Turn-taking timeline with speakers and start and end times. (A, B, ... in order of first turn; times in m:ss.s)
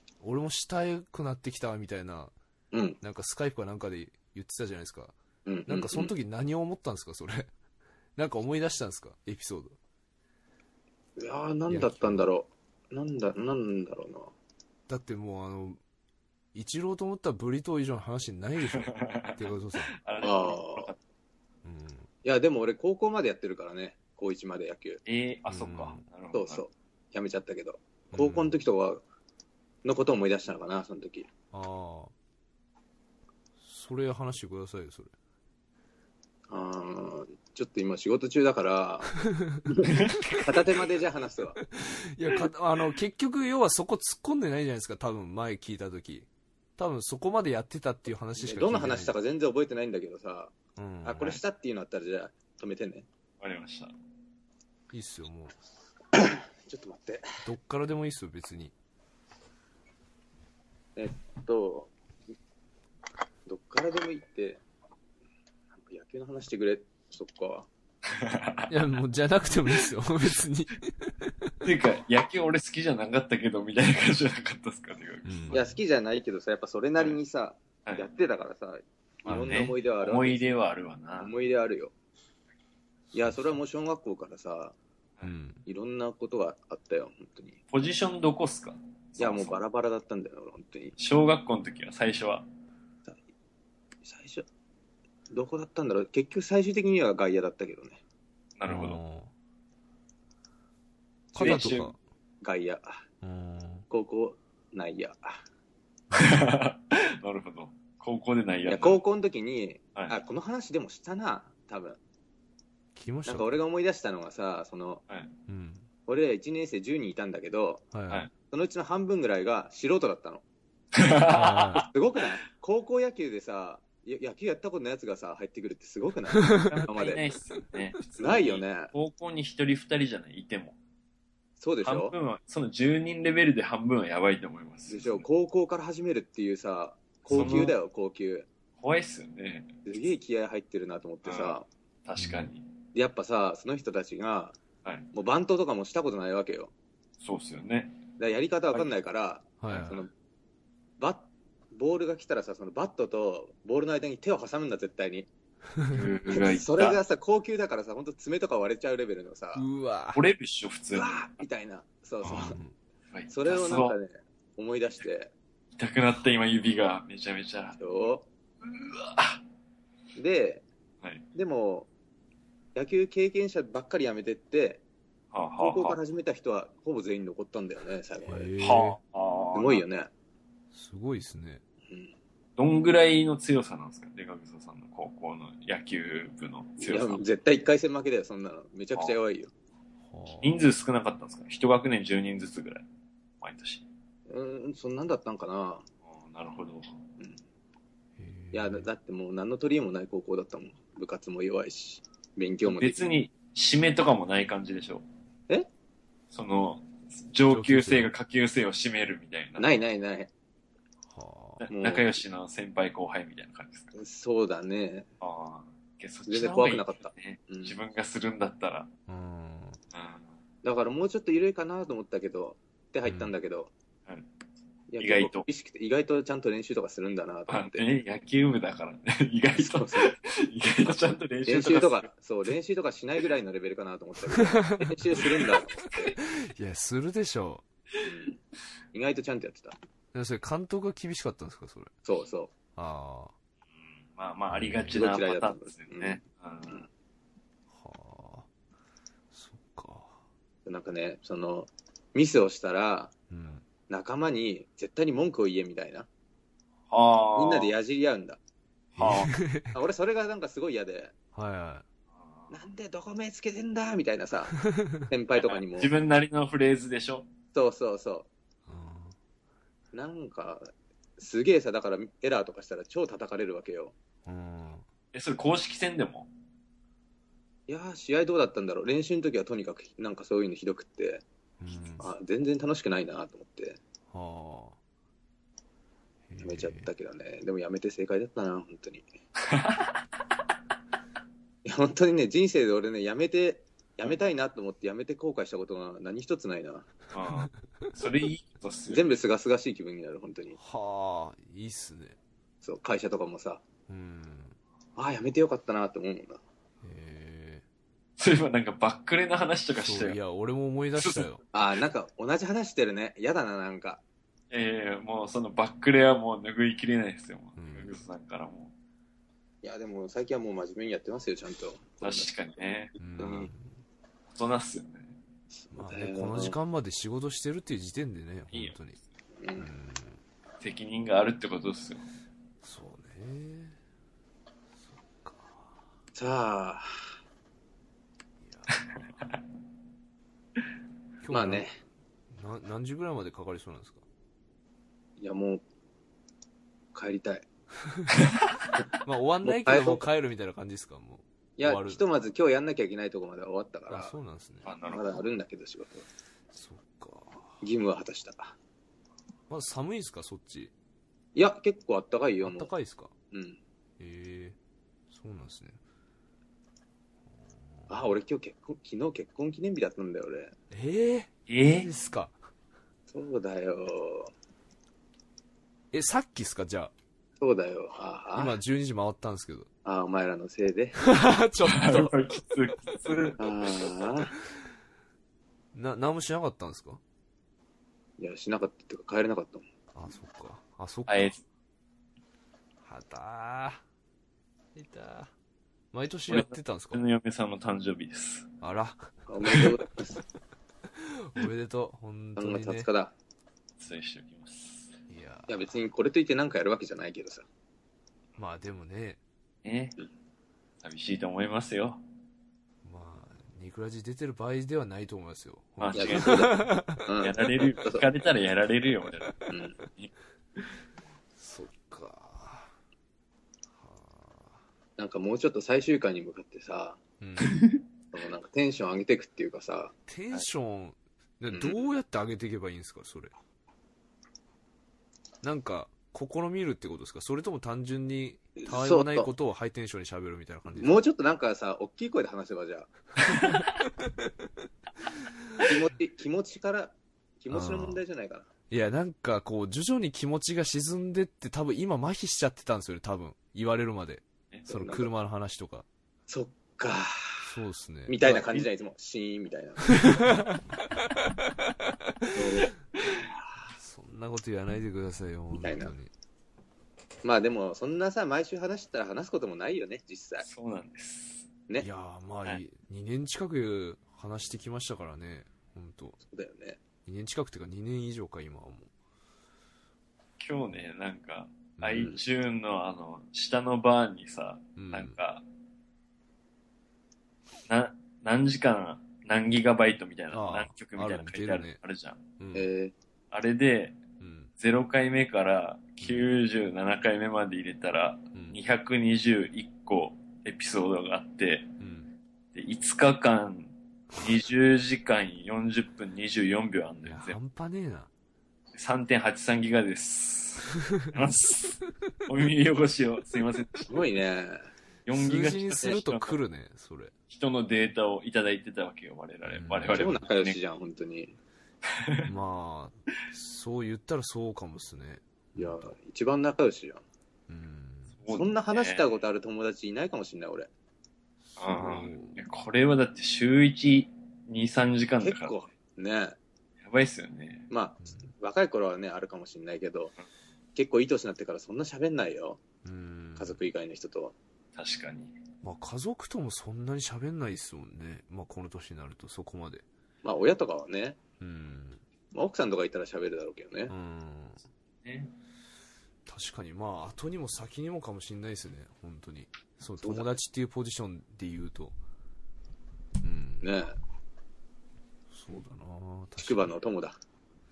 0:00.2-0:02.3 A
0:02.7-0:03.0 B
0:03.0-0:05.2 A
0:05.5-0:06.1 B
0:05.7-0:07.5 A
0:08.2-0:09.8 A
0:11.2-0:14.3 B
0:11.7-0:12.3 A
0:14.9-0:15.8 A
0:16.5-0:19.9 A
0:18.7-0:21.0 C
0:20.2-0:20.9 B
0:21.6-0:22.1 A
0:22.2-0:25.0 B
0:25.1-0:26.6 C
0:25.5-0:26.0 A
0:26.3-0:29.0 B
0:28.1-0:28.6 A
0:29.8-0:31.3 B
0:31.5-0:32.1 A
0:33.6-0:35.1 A
0:36.5-0:39.1 B
0:39.2-0:39.8 A
0:39.7-0:41.6 B
0:39.9-0:40.5 C
0:41.6-0:49.2 A
0:48.4-0:53.1 B
0:50.8-0:51.4 A
0:53.4-0:53.9 C
0:54.9-0:55.6 A
0:56.2-0:57.3 B
0:57.5-0:58.7 A
1:01.0-1:01.9 B
1:03.5-1:04.6 B
1:05.7-1:07.7 B
1:08.1-1:08.7 C
1:08.7-1:11.6 A
1:11.6-1:15.6 C
1:15.2-1:15.7 A
1:15.5-1:20.4 B
1:19.3-1:21.3 C
1:19.3-1:19.7 A
1:21.2-1:21.9 B
1:23.1-1:23.6 A
1:23.1-1:24.8 B
1:25.2-1:25.6 A
1:25.7-1:27.6 B
1:27.7-1:29.6 C
1:29.2-1:31.0 B
1:31.0-1:32.4 C
1:34.0-1:34.5 B
1:35.3-1:38.0 B
1:38.6-1:39.0 C
1:38.7-1:39.3 A
1:41.3-1:42.0 A
1:41.4-1:41.9 C
1:41.4-1:41.7 B
1:42.4-1:43.0 B
1:43.2-1:43.9 A
1:43.9-1:45.4 B
1:46.1-1:46.5 A
1:46.1-1:49.0 C
1:48.7-1:52.0 B
1:53.0-1:53.5 A
1:53.3-1:55.0 B
1:55.5-1:55.9 A
1:56.1-1:57.8 B
1:57.9-1:58.3 A
1:58.5-2:00.4 B
2:00.9-2:01.9 C
2:01.3-2:01.9 A
2:01.8-2:07.3 B
2:06.6-2:10.8 C
2:08.2-2:08.9 B
2:11.6-2:12.2 B
2:11.8-2:15.3 C
2:14.9-2:18.5 B
2:17.3-2:17.7 A
2:17.3-2:17.8 C
2:18.8-2:19.8 C
2:19.9-2:21.7 B
2:21.2-2:22.7 C
2:22.2-2:22.5 A
2:22.9-2:24.6 B
2:25.1-2:26.7 B
2:27.2-2:28.0 C
2:28.2-2:30.1 B
2:29.6-2:30.0 A
2:31.0-2:35.3 B
2:35.8-2:36.0 A
2:35.9-2:37.0 C
2:36.3-2:39.7 B
2:39.6-2:40.2 A
2:40.1-2:41.3 C
2:40.9-2:42.6 B
2:42.2-2:42.5 C
2:42.3-2:42.7 A
2:43.1-2:44.0 C
2:43.3-2:45.3 B
2:45.8-2:47.8 C
2:47.8-2:48.3 B
2:48.6-2:49.4 C
2:50.2-2:50.6 B
2:51.3-2:51.9 B
2:52.8-2:54.8 B
2:55.3-2:56.0 C
2:55.6-2:58.5 B
2:58.3-2:59.0 A
2:58.6-2:59.8 C
2:59.5-3:00.1 B
3:00.7-3:01.6 A
3:01.9-3:02.1 B
3:02.6-3:07.2 C
3:06.8-3:09.5 B
3:10.0-3:10.7 A
3:10.4-3:12.8 C
3:13.4-3:13.9 C
3:14.3-3:15.8 B
3:16.1-3:17.0 C
3:18.2-3:18.9 A
3:18.5-3:23.1 B
3:22.6-3:25.0 C
3:26.3-3:29.7 C
3:27.5-3:28.1 A
3:29.6-3:30.3 B
3:31.1-3:31.6 A
3:31.6-3:33.9 C
3:31.7-3:32.2 B
3:34.0-3:35.1 B
3:35.2-3:38.9 C
3:36.3-3:37.8 B
3:39.1-3:39.8 A
3:39.9-3:40.3 C
3:40.6-3:43.7 B
3:43.0-3:43.3 A
3:44.9-3:47.8 B
3:45.0-3:45.5 C
3:47.5-3:52.1 C
3:49.6-3:50.2 B
3:51.5-3:56.2 B
3:54.4-3:55.2 A
3:56.2-3:57.6 A
3:58.0-3:58.4 B
3:58.9-3:59.8 B
4:00.1-4:01.9 A
4:02.0-4:02.5 B
4:02.8-4:03.3 A
4:04.0-4:06.9 C
4:04.5-4:05.0 A
4:04.9-4:06.8 B
4:07.7-4:08.5 A
4:09.3-4:10.2 A
4:10.7-4:13.1 B
4:13.3-4:13.6 A
4:13.9-4:16.1 B
4:16.9-4:17.7 C
4:17.4-4:18.4 B
4:19.0-4:19.3 C
4:19.0-4:19.8 A
4:19.7-4:21.1 B
4:21.4-4:21.9 A
4:22.5-4:25.9 B
4:24.7-4:25.0 A
4:25.4-4:27.3 C
4:27.5-4:28.3 B
4:28.7-4:29.2 A
4:29.9-4:33.9 B
4:34.2-4:34.8 A
4:35.1-4:36.3 C
4:37.7-4:41.2 B
4:41.6-4:42.1 A
4:42.0-4:43.8 B
4:44.1-4:44.8 A
4:46.3-4:46.9 A
4:46.4-4:49.0 B
4:49.5-4:49.9 C
4:51.6-4:56.9 B
4:57.1-4:59.1 C
4:58.9-5:00.6 B
5:00.6-5:02.2 A
5:02.6-5:03.6 B
5:03.9-5:04.6 A
5:05.0-5:06.4 B
5:06.8-5:07.6 A
5:08.2-5:10.2 C
5:09.8-5:11.4 A
5:11.0-5:11.3 C
5:11.5-5:14.0 B
5:14.5-5:18.7 C
5:17.6-5:18.0 A
5:19.6-5:22.3 B
5:22.0-5:23.0 C
5:23.0-5:23.8 A
5:23.2-5:23.5 B
5:24.4-5:25.2 C
5:25.5-5:26.6 B
5:25.7-5:29.0 A
5:29.4-5:29.7 B
5:29.6-5:30.2 A
5:30.6-5:32.1 C
5:32.6-5:33.8 A
5:35.1-5:35.7 A
5:36.2-5:36.9 B
5:38.4-5:38.8 A
5:38.7-5:39.4 C
5:41.2-5:41.7 A
5:41.3-5:41.7 B
5:42.3-5:44.0 A
5:45.2-5:45.6 B
5:46.9-5:47.5 B
5:49.0-5:52.0 A
5:49.4-5:50.0 B
5:51.6-5:54.2 B
5:53.9-5:54.7 A
5:54.6-5:55.2 C
5:54.9-5:56.1 B
5:56.5-5:57.6 A
5:57.6-5:58.6 B
5:59.5-6:00.7 A
6:01.4-6:02.7 B
6:02.4-6:03.1 A
6:03.3-6:03.6 B
6:04.0-6:04.6 A
6:05.1-6:05.8 A
6:07.9-6:10.5 B
6:10.7-6:12.4 A
6:11.5-6:11.9 C
6:13.1-6:14.3 B
6:15.9-6:16.9 A
6:17.4-6:18.6 B
6:18.4-6:19.7 A
6:19.8-6:21.0 B
6:21.0-6:22.2 A
6:21.6-6:23.5 C
6:23.4-6:24.3 B
6:25.7-6:27.0 A
6:28.2-6:29.6 B
6:29.9-6:31.4 A
6:31.1-6:31.4 C
6:32.8-6:33.8 A
6:34.8-6:35.3 A
6:35.9-6:37.0 A
6:36.3-6:38.5 C
6:38.6-6:39.1 A
6:39.3-6:40.2 B
6:41.0-6:42.9 A
6:42.4-6:43.1 B
6:43.8-6:44.9 C
6:45.1-6:45.6 A
6:45.5-6:47.5 B
6:48.4-6:49.2 A
6:49.6-6:50.0 C
6:50.8-6:52.0 C
6:52.8-6:57.0 A
6:55.8-6:56.6 C
6:55.9-6:58.1 B
6:57.2-7:00.1 C
6:59.5-6:59.8 B
7:01.4-7:02.7 A
7:03.8-7:04.6 A
7:05.0-7:07.0 B
7:07.2-7:07.6 A
7:07.4-7:07.8 C
7:08.1-7:09.9 B
7:10.1-7:13.3 A
7:11.5-7:11.8 B
7:15.4-7:21.0 A
7:18.6-7:19.3 B
7:20.7-7:22.9 B
7:25.6-7:28.5 B
7:27.5-7:28.0 A
7:28.7-7:35.9 A
7:34.7-7:35.1 B
7:36.3-7:37.5 B
7:37.5-7:38.7 A
7:38.1-7:40.2 B
7:39.9-7:40.6 A
7:42.3-7:43.5 B
7:43.8-7:46.1 A
7:45.6-7:45.9 B
7:47.2-7:50.4 B
7:50.4-7:51.5 C
7:51.8-7:56.2 A
7:56.3-7:56.8 B
7:57.1-7:58.9 A
8:00.4-8:05.4 C
8:01.8-8:02.2 A
8:04.8-8:05.2 A
8:07.7-8:12.2 C
8:10.3-8:11.8 A
8:12.4-8:12.7 A
8:12.5-8:12.9 B
8:13.3-8:14.0 C
8:14.2-8:14.5 A
8:14.6-8:21.7 C
8:16.0-8:16.3 A
8:21.8-8:22.1 A
8:22.5-8:27.4 C
8:27.1-8:28.1 A
8:28.7-8:34.0 C
8:33.9-8:34.7 B
8:35.1-8:36.4 C
8:35.1-8:37.1 A
8:37.3-8:40.6 C
8:39.4-8:40.2 A
8:39.9-8:41.4 B
8:41.9-8:42.3 C
8:42.2-8:45.9 A
8:45.6-8:47.0 B
8:47.5-8:48.2 A
8:48.2-8:49.2 C
8:48.3-8:50.7 B
8:51.5-8:52.4 A
8:51.6-8:55.6 C
8:55.2-8:56.4 B
8:56.8-8:57.7 C
8:57.7-9:00.1 B
8:58.0-8:58.3 A
9:00.8-9:02.6 B
9:02.8-9:03.6 A
9:03.4-9:04.4 B
9:04.8-9:05.4 C
9:05.6-9:09.8 A
9:10.2-9:11.2 B
9:11.4-9:12.0 A
9:12.3-9:13.9 B
9:13.9-9:14.6 A
9:15.0-9:15.3 C
9:16.3-9:22.0 A
9:20.0-9:20.3 B
9:23.2-9:23.7 A
9:23.6-9:24.0 B
9:25.3-9:26.7 A
9:26.4-9:27.2 B